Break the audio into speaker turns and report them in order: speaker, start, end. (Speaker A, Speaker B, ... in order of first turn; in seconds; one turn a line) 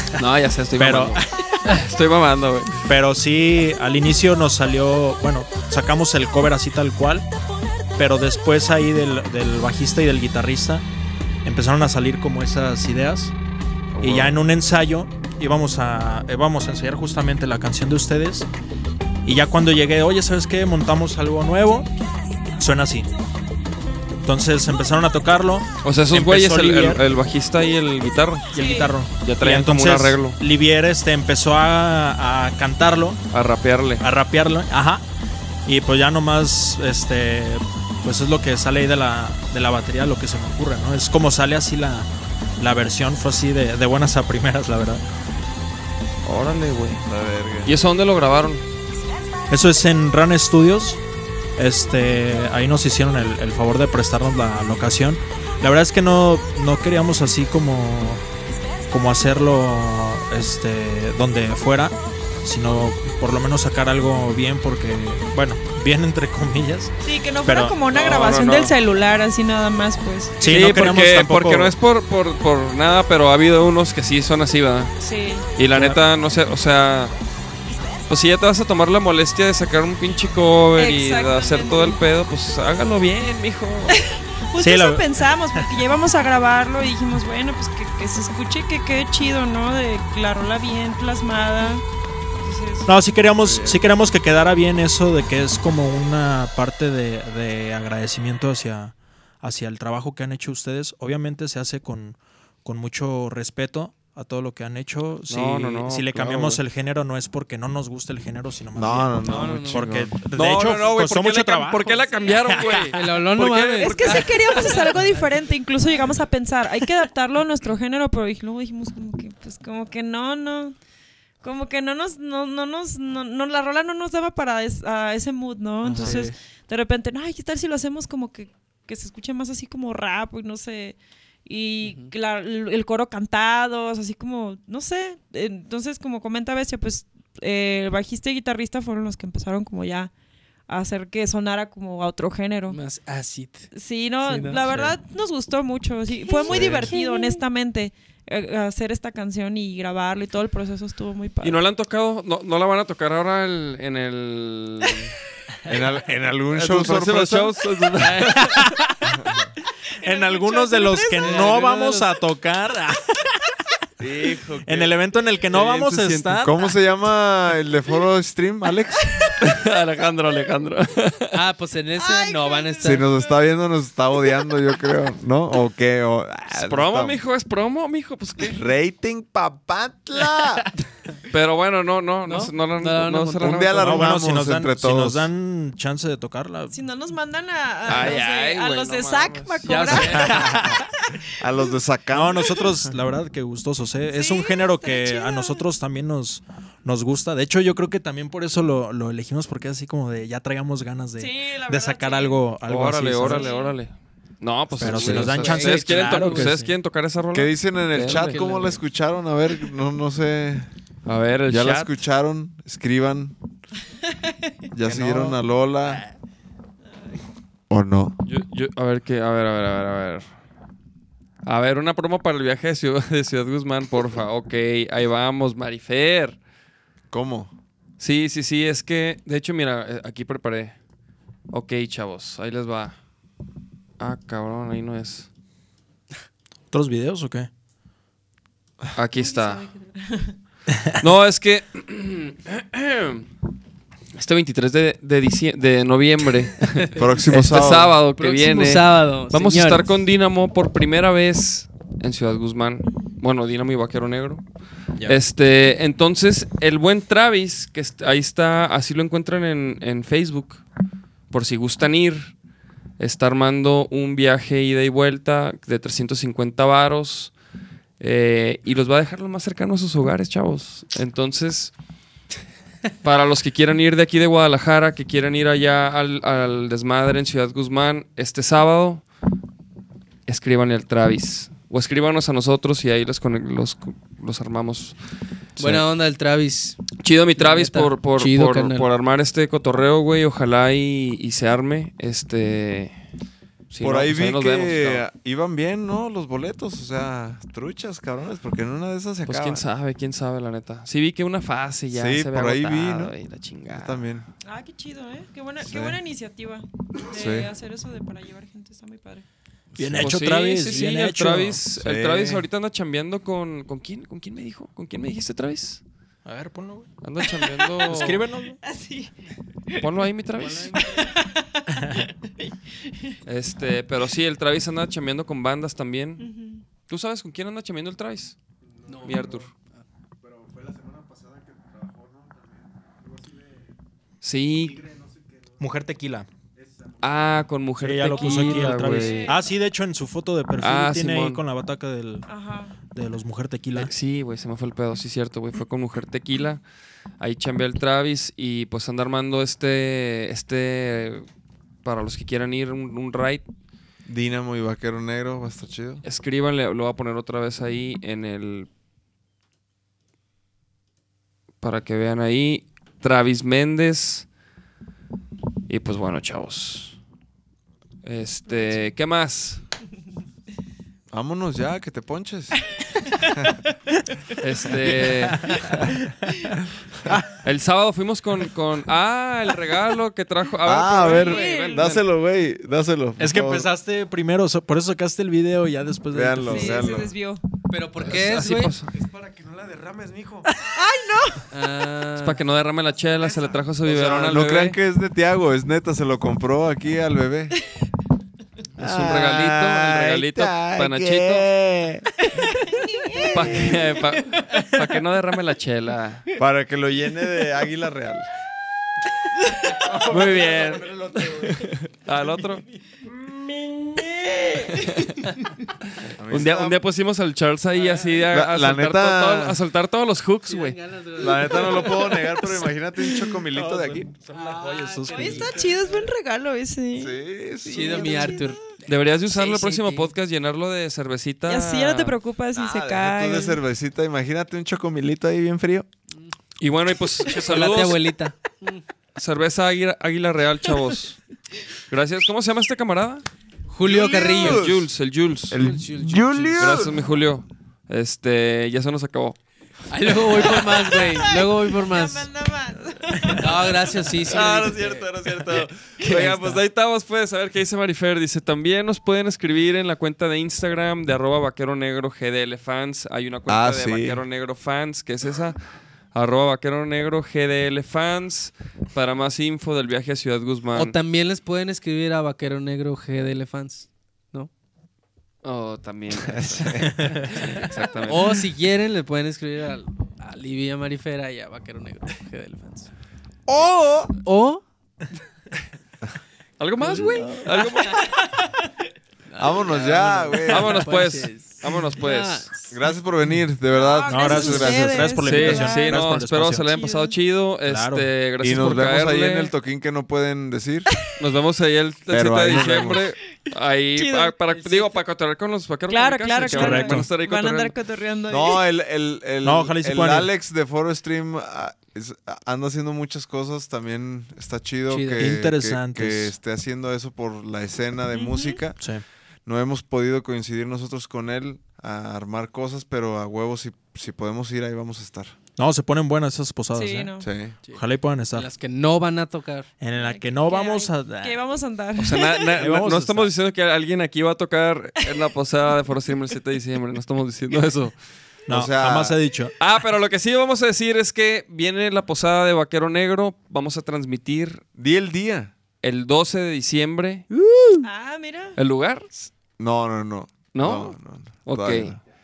Speaker A: 0.1-2.9
Speaker B: 0.8-1.4
Speaker B: 2.9-7.3
Speaker B: 8.0-10.9
Speaker B: 11.4-13.3
Speaker A: 13.9-14.4
Speaker B: 14.0-18.5
Speaker B: 19.2-21.9
Speaker B: 22.6-23.1
Speaker B: 24.2-27.0
Speaker A: 25.8-28.5
Speaker C: 28.5-28.9
Speaker B: 28.5-33.2
Speaker A: 29.2-30.4
Speaker A: 33.3-34.0
Speaker B: 34.0-35.0
Speaker B: 35.7-45.0
Speaker A: 46.2-47.0
Speaker D: 47.1-47.7
Speaker A: 47.6-48.6
Speaker B: 49.5-51.0
Speaker B: 51.6-58.2
Speaker B: 58.9-66.9
Speaker C: 67.0-70.7
Speaker B: 67.5-67.8
Speaker A: 67.9-68.7
Speaker B: 70.4-71.7
Speaker A: 70.5-74.9
Speaker C: 75.0-75.5
Speaker A: 75.6-77.1
Speaker A: 78.1-84.0
Speaker C: 80.8-82.0
Speaker C: 84.0-91.8
Speaker B: 84.6-85.0
Speaker C: 92.4-92.9
Speaker B: 92.9-112.9
Speaker D: 93.4-93.9
Speaker A: 105.3-106.6
Speaker D: 108.7-110.2
Speaker E: 109.2-109.9
Speaker A: 110.3-114.4
Speaker E: 112.9-115.3
Speaker C: 113.8-120.8
Speaker C: 121.4-140.1
Speaker B: 125.9-126.3
Speaker E: 126.0-126.3
Speaker E: 131.8-132.1
Speaker C: 140.7-142.8
Speaker E: 142.7-145.0
Speaker C: 143.7-151.6
Speaker E: 146.3-147.4
Speaker D: 146.5-146.9
Speaker A: 151.4-155.2
Speaker D: 155.7-157.6
Speaker A: 156.5-158.6
Speaker E: 158.0-158.4
Speaker B: 158.2-159.1
Speaker C: 160.0-161.7
Speaker B: 160.0-163.6
Speaker E: 161.2-162.1
Speaker D: 164.0-165.0
Speaker B: 164.6-166.7
Speaker A: 165.5-166.3
Speaker D: 165.5-169.3
Speaker A: 169.4-171.4
Speaker E: 171.3-173.1
Speaker C: 172.0-173.2
Speaker D: 172.8-177.2
Speaker A: 176.5-178.6
Speaker D: 178.5-180.7
Speaker A: 181.3-184.1
Speaker E: 182.2-183.8
Speaker D: 183.4-185.3
Speaker B: 183.7-186.8
Speaker C: 186.7-190.7
Speaker A: 187.9-190.3
Speaker E: 189.6-190.6
Speaker B: 190.2-190.8
Speaker D: 191.4-192.9
Speaker B: 192.1-203.5
Speaker C: 194.1-195.7
Speaker C: 201.2-202.4
Speaker A: 202.7-208.4
Speaker C: 203.2-203.8
Speaker D: 204.8-205.4
Speaker B: 204.8-206.7
Speaker E: 205.0-206.6
Speaker D: 207.3-210.7
Speaker E: 208.1-208.8
Speaker A: 211.1-211.9
Speaker D: 211.5-213.4
Speaker D: 214.7-216.0
Speaker B: 214.8-215.4
Speaker D: 217.7-218.2
Speaker A: 218.2-220.2
Speaker A: 221.4-226.4
Speaker D: 227.1-227.5
Speaker A: 228.0-230.8
Speaker A: 231.5-232.9
Speaker A: 234.0-235.3
Speaker B: 236.7-237.5
Speaker A: 238.9-239.7
Speaker A: 241.0-243.3
Speaker A: 244.2-254.4
Speaker E: 246.8-247.6
Speaker D: 247.0-248.0
Speaker E: 248.1-249.9
Speaker A: 255.0-260.6
Speaker A: 261.3-262.3
Speaker A: 263.0-267.3
Speaker A: 268.0-271.7
Speaker A: 273.0-279.0
Speaker A: 280.3-284.9
Speaker E: 285.6-288.9
Speaker B: 285.6-285.9
Speaker A: 287.0-292.9
Speaker A: 293.7-295.1
Speaker D: 293.8-299.6
Speaker A: 299.3-304.1
Speaker D: 301.9-303.1
Speaker D: 303.7-304.3
Speaker C: 304.4-309.2
Speaker D: 305.6-306.0
Speaker D: 307.1-307.5
Speaker E: 309.8-310.0
Speaker B: 309.8-311.6
Speaker A: 309.9-315.8
Speaker D: 311.8-312.5
Speaker B: 316.2-316.9
Speaker A: 317.0-318.3
Speaker C: 317.2-317.7
Speaker B: 317.8-318.6
Speaker C: 318.6-319.1
Speaker A: 319.8-320.8
Speaker E: 320.3-321.1
Speaker C: 320.7-323.2
Speaker B: 321.8-322.0
Speaker A: 323.2-326.3
Speaker C: 326.2-326.6
Speaker A: 326.9-328.4
Speaker F: 328.6-329.5
Speaker E: 328.9-329.8
Speaker A: 329.0-329.5
Speaker F: 330.2-333.8
Speaker A: 334.2-334.8
Speaker F: 334.5-335.7
Speaker B: 335.6-336.3
Speaker F: 336.5-337.6
Speaker A: 337.0-339.4
Speaker B: 337.8-342.3
Speaker C: 338.1-339.5
Speaker E: 338.3-338.7
Speaker A: 340.6-341.4
Speaker C: 342.3-342.7
Speaker B: 342.9-343.9
Speaker A: 343.8-346.6
Speaker A: 347.2-351.3
Speaker A: 351.8-353.4
Speaker D: 354.1-356.0
Speaker A: 356.0-358.7
Speaker A: 361.6-364.3
Speaker A: 365.7-367.0
Speaker A: 368.0-369.6
Speaker D: 371.1-373.6
Speaker C: 372.8-373.3
Speaker A: 374.4-375.6
Speaker B: 375.0-376.1
Speaker A: 377.4-382.0
Speaker D: 380.6-383.7
Speaker C: 381.0-381.9
Speaker B: 383.2-387.0
Speaker D: 386.1-387.1
Speaker C: 386.5-387.4
Speaker E: 387.7-388.8
Speaker A: 388.0-388.9
Speaker F: 388.9-390.5
Speaker C: 390.7-391.4
Speaker E: 391.5-392.4
Speaker A: 392.1-394.8
Speaker F: 393.1-393.6
Speaker D: 393.9-397.6
Speaker A: 398.8-401.5
Speaker D: 398.8-402.1
Speaker C: 402.3-403.1
Speaker A: 403.3-406.2
Speaker D: 403.3-403.7
Speaker D: 406.4-408.3
Speaker F: 409.7-411.7
Speaker A: 410.0-412.6
Speaker F: 413.1-414.5
Speaker A: 414.8-415.1
Speaker A: 416.0-420.8
Speaker D: 416.2-416.8
Speaker E: 417.8-418.3
Speaker D: 418.3-419.6
Speaker E: 420.4-422.5
Speaker D: 421.1-424.1
Speaker B: 423.5-425.5
Speaker E: 424.3-426.1
Speaker C: 425.1-428.6
Speaker D: 427.0-428.5
Speaker E: 427.6-430.1
Speaker A: 428.9-432.2
Speaker C: 431.5-433.6
Speaker D: 432.5-435.9
Speaker A: 436.6-438.1
Speaker E: 437.2-438.9
Speaker A: 439.2-441.2
Speaker A: 441.9-443.3
Speaker E: 443.7-444.7
Speaker D: 443.8-444.9
Speaker A: 444.3-445.6
Speaker D: 445.5-447.1
Speaker E: 445.6-446.9
Speaker A: 446.6-449.4
Speaker E: 449.9-452.3
Speaker A: 450.2-450.7
Speaker C: 450.4-454.2
Speaker E: 453.3-455.1
Speaker A: 454.2-465.6
Speaker E: 456.1-456.6
Speaker D: 463.5-464.2
Speaker A: 466.1-471.0
Speaker E: 470.7-474.5
Speaker A: 475.4-478.4
Speaker D: 476.2-477.0
Speaker E: 478.1-482.9
Speaker D: 483.5-484.1
Speaker E: 484.2-484.6
Speaker A: 486.6-488.2
Speaker E: 486.8-487.7
Speaker C: 487.9-488.4
Speaker E: 489.3-492.9
Speaker D: 489.4-490.9
Speaker A: 490.5-492.5
Speaker D: 492.7-495.1
Speaker C: 493.7-496.0
Speaker B: 494.1-496.6
Speaker A: 495.2-499.5
Speaker C: 496.6-497.1
Speaker B: 497.7-498.1
Speaker D: 498.4-500.9
Speaker A: 501.2-507.8
Speaker D: 502.1-503.1
Speaker C: 504.0-504.3
Speaker E: 504.5-505.0
Speaker C: 505.9-508.6
Speaker B: 506.4-507.1
Speaker D: 508.3-518.8
Speaker B: 509.4-510.3
Speaker E: 514.9-515.5
Speaker B: 515.2-516.4
Speaker C: 518.1-518.6
Speaker B: 518.8-519.0
Speaker D: 519.5-525.4
Speaker B: 525.6-527.1
Speaker C: 526.7-527.3
Speaker D: 527.2-527.6
Speaker E: 527.6-529.7
Speaker B: 527.7-528.5
Speaker B: 529.8-531.4
Speaker C: 529.9-532.5
Speaker A: 532.0-538.0
Speaker B: 532.6-533.3
Speaker D: 538.5-539.2
Speaker B: 538.5-539.5
Speaker A: 539.6-544.6
Speaker D: 544.8-545.5
Speaker A: 545.8-547.3
Speaker D: 547.3-547.9
Speaker C: 547.8-548.6
Speaker A: 548.6-549.1
Speaker D: 549.6-552.0
Speaker A: 550.5-552.0